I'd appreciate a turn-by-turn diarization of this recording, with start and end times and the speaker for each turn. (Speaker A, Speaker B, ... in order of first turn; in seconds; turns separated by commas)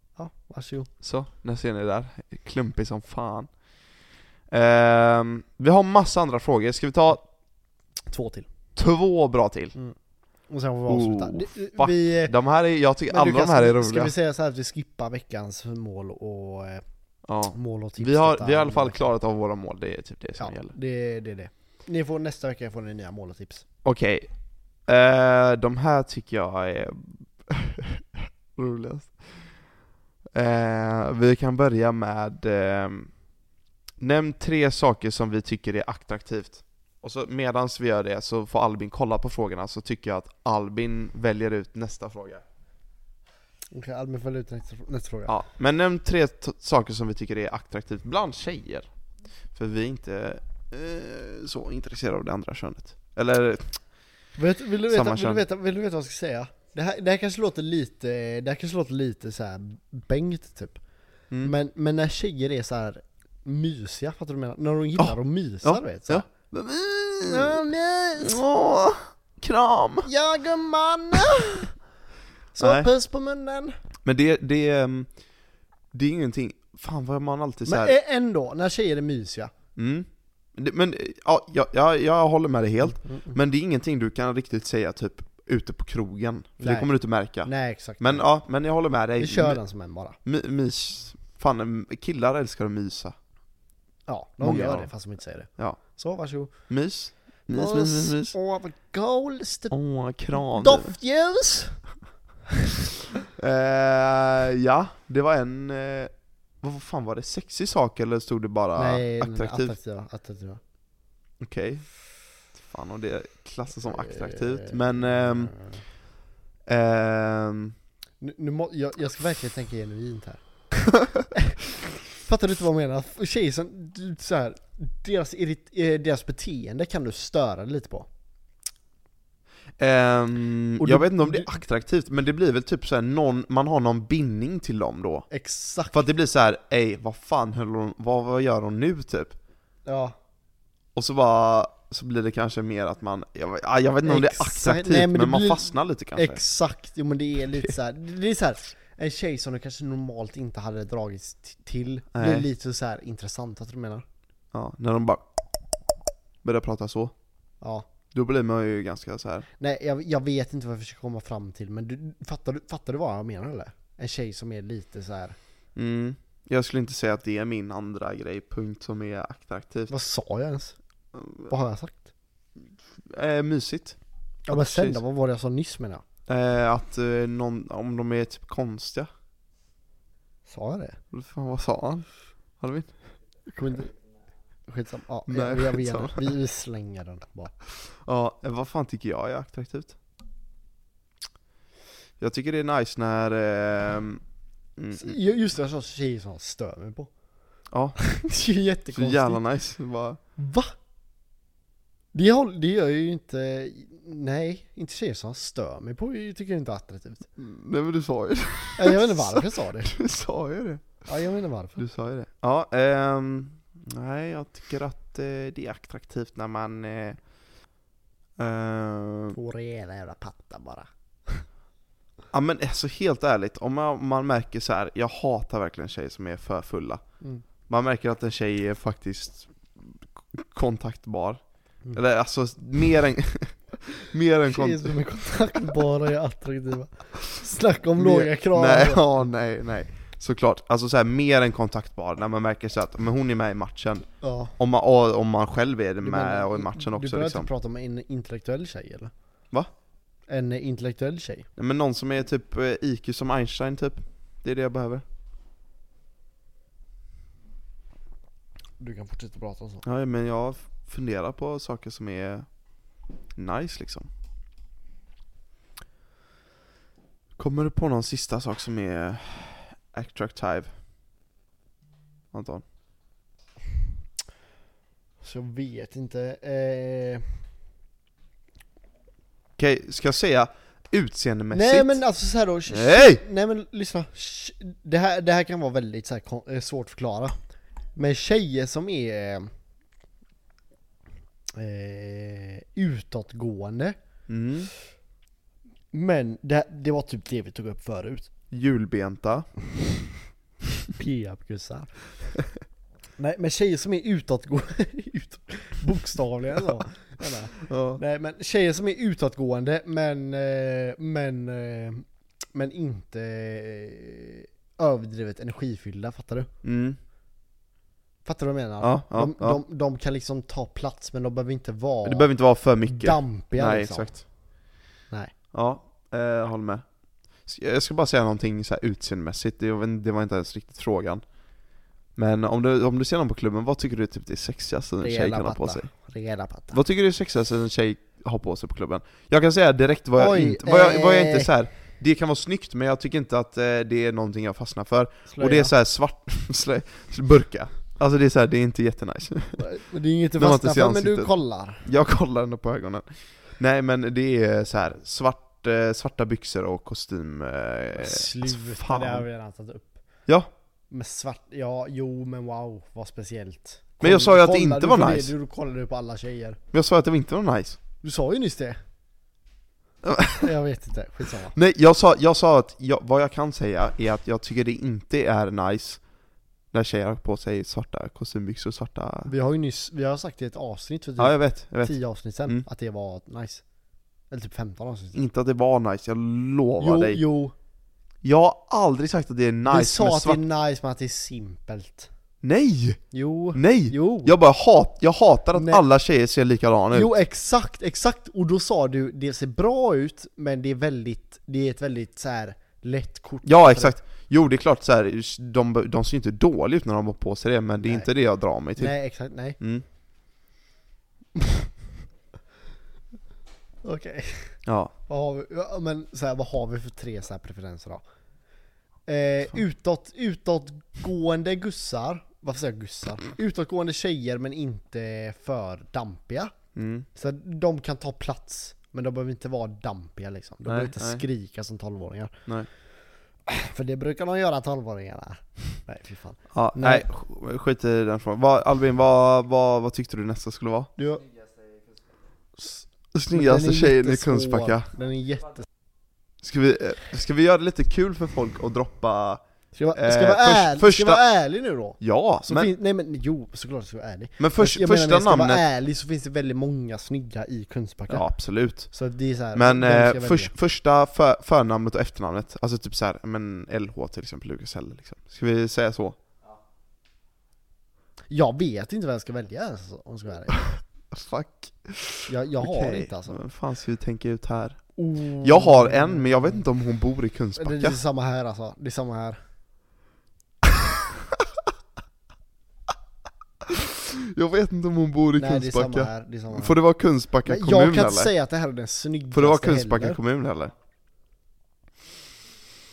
Speaker A: 0.2-0.9, Speaker B: 1.0-3.5, Speaker B: 4.5-7.2, Speaker A: 8.1-8.5, Speaker B: 8.8-9.8, Speaker A: 10.5-12.3, Speaker B: 10.9-14.1, Speaker A: 13.1-16.8, Speaker B: 17.2-20.7, Speaker A: 17.5-19.0, Speaker A: 20.4-23.6, Speaker B: 23.8-24.3, Speaker B: 24.9-29.6, Speaker B: 30.3-33.1, Speaker B: 34.0-42.4, Speaker A: 43.7-45.3, Speaker B: 45.3-48.9, Speaker B: 49.5-53.8, Speaker A: 54.4-60.8, Speaker B: 54.9-55.4, Speaker A: 61.4-66.3, Speaker B: 65.0-67.6, Speaker A: 67.2-68.4, Speaker B: 68.2-70.1, Speaker A: 70.0-71.7, Speaker A: 72.5-73.8, Speaker B: 72.6-72.9, Speaker B: 74.0-75.1, Speaker B: 75.9-77.9, Speaker A: 77.7-79.5, Speaker B: 79.8-89.6, Speaker A: 82.9-83.4, Speaker A: 86.6-88.2, Speaker A: 89.2-90.2, Speaker B: 90.2-93.1, Speaker A: 94.1-96.5, Speaker B: 94.4-94.9, Speaker B: 96.7-98.3, Speaker A: 97.5-99.7, Speaker B: 99.7-100.9, Speaker A: 100.3-101.8, Speaker B: 103.3-106.1, Speaker B: 106.6-109.7, Speaker A: 108.8-110.6, Speaker B: 111.4-111.8, Speaker B: 112.5-115.5, Speaker A: 113.8-115.8, Speaker B: 116.7-117.8, Speaker A: 118.2-120.4, Speaker A: 121.3-128.1, Speaker B: 129.8-135.3, Speaker A: 130.8-131.5, Speaker A: 135.3-136.0, Speaker B: 135.9-139.3, Speaker A: 139.8-140.2, Speaker B: 140.9-146.4, Speaker A: 144.0-154.0, Speaker B: 152.1-152.5, Speaker B: 154.5-155.2, Speaker B: 156.4-157.1, Speaker A: 157.6-157.9, Speaker B: 158.1-159.5, Speaker A: 159.6-165.3, Speaker B: 165.8-169.9, Speaker A: 169.9-170.8, Speaker B: 171.1-171.5, Speaker A: 171.5-172.0, Speaker B: 173.1-174.0, Speaker A: 174.5-176.0, Speaker B: 174.5-175.0, Speaker B: 176.3-179.1, Speaker A: 180.4-181.0, Speaker B: 181.1-182.1, Speaker B: 182.6-182.9, Speaker A: 183.5-183.9, Speaker A: 184.7-187.5, Speaker B: 185.3-186.3, Speaker B: 188.0-189.9, Speaker B: 192.2-194.2, Speaker B: 194.8-195.2, Speaker A: 194.9-197.1, Speaker B: 197.7-198.0, Speaker A: 198.0-199.4, Speaker B: 198.9-200.2, Speaker A: 200.4-200.7, Speaker A: 202.1-207.3, Speaker B: 207.4-211.0, Speaker A: 208.8-209.9, Speaker A: 211.1-211.8, Speaker B: 211.8-217.2, Speaker B: 218.4-219.4, Speaker A: 219.3-221.4, Speaker B: 222.3-227.0, Speaker B: 227.7-231.4, Speaker B: 231.9-235.0, Speaker A: 234.5-239.2, Speaker B: 237.9-244.1, Speaker A: 244.2-244.5, Speaker B: 244.6-247.5, Speaker A: 246.0-249.1, Speaker A: 250.3-251.5, Speaker B: 251.6-255.0, Speaker A: 258.8-259.8, Speaker B: 259.8-262.5, Speaker B: 263.4-264.1, Speaker B: 267.4-270.7, Speaker B: 272.3-272.6, Speaker A: 275.2-277.3, Speaker B: 279.6-282.0, Speaker A: 281.5-287.4, Speaker B: 282.7-283.2, Speaker A: 287.9-289.5, Speaker A: 291.5-294.0, Speaker B: 294.3-294.7, Speaker A: 295.9-298.3, Speaker B: 298.5-299.5, Speaker A: 300.9-302.0, Speaker A: 303.2-316.5, Speaker B: 307.6-308.0, Speaker B: 316.6-317.0, Speaker A: 318.2-322.3, Speaker B: 318.8-319.6, Speaker B: 322.0-324.2, Speaker A: 322.9-324.2, Speaker B: 325.5-326.8, Speaker B: 327.4-331.2, Speaker B: 332.1-335.9, Speaker A: 335.0-336.8, Speaker B: 336.7-349.6, Speaker A: 340.2-341.5, Speaker A: 345.3-345.7, Speaker A: 349.6-351.8, Speaker B: 350.4-351.3, Speaker B: 351.8-359.2, Speaker A: 357.9-360.0, Speaker A: 360.9-366.6, Speaker B: 364.0-365.3, Speaker B: 366.7-367.8, Speaker A: 368.0-368.8, Speaker B: 370.0-370.5, Speaker A: 370.4-371.5, Speaker B: 371.5-376.0, Speaker B: 376.7-379.3, Speaker A: 379.2-383.6, Speaker B: 381.2-382.6, Speaker A: 384.3-385.2, Speaker B: 385.1-387.2, Speaker A: 386.8-387.5, Speaker B: 388.2-390.4, Speaker A: 389.7-392.1, Speaker B: 392.4-393.0, Speaker A: 393.1-394.3, Speaker B: 393.5-397.1, Speaker A: 395.5-395.8, Speaker A: 396.9-403.9, Speaker B: 403.4-408.9, Speaker A: 407.8-408.1, Speaker A: 408.8-409.6, Speaker B: 409.6-409.8, Speaker A: 413.8-418.0, Speaker B: 414.6-414.9, Speaker A: 419.1-426.5, Speaker B: 426.7-427.1, Speaker A: 427.1-432.3, Speaker B: 430.6-431.2, Speaker A: 433.5-437.0, Speaker B: 436.5-440.9, Speaker A: 441.0-441.3, Speaker A: 442.6-445.7, Speaker B: 443.1-444.9, Speaker B: 446.4-449.4, Speaker A: 449.7-458.2, Speaker B: 449.9-451.2, Speaker B: 452.0-452.7, Speaker B: 454.4-455.6, Speaker B: 458.1-458.9, Speaker A: 458.9-460.5, Speaker B: 459.5-466.2, Speaker A: 468.3-470.6, Speaker B: 470.5-478.0, Speaker A: 472.3-473.4, Speaker A: 475.0-476.6, Speaker A: 477.6-479.4, Speaker B: 483.6-488.3, Speaker A: 485.4-486.8, Speaker A: 487.4-490.2, Speaker B: 489.3-490.7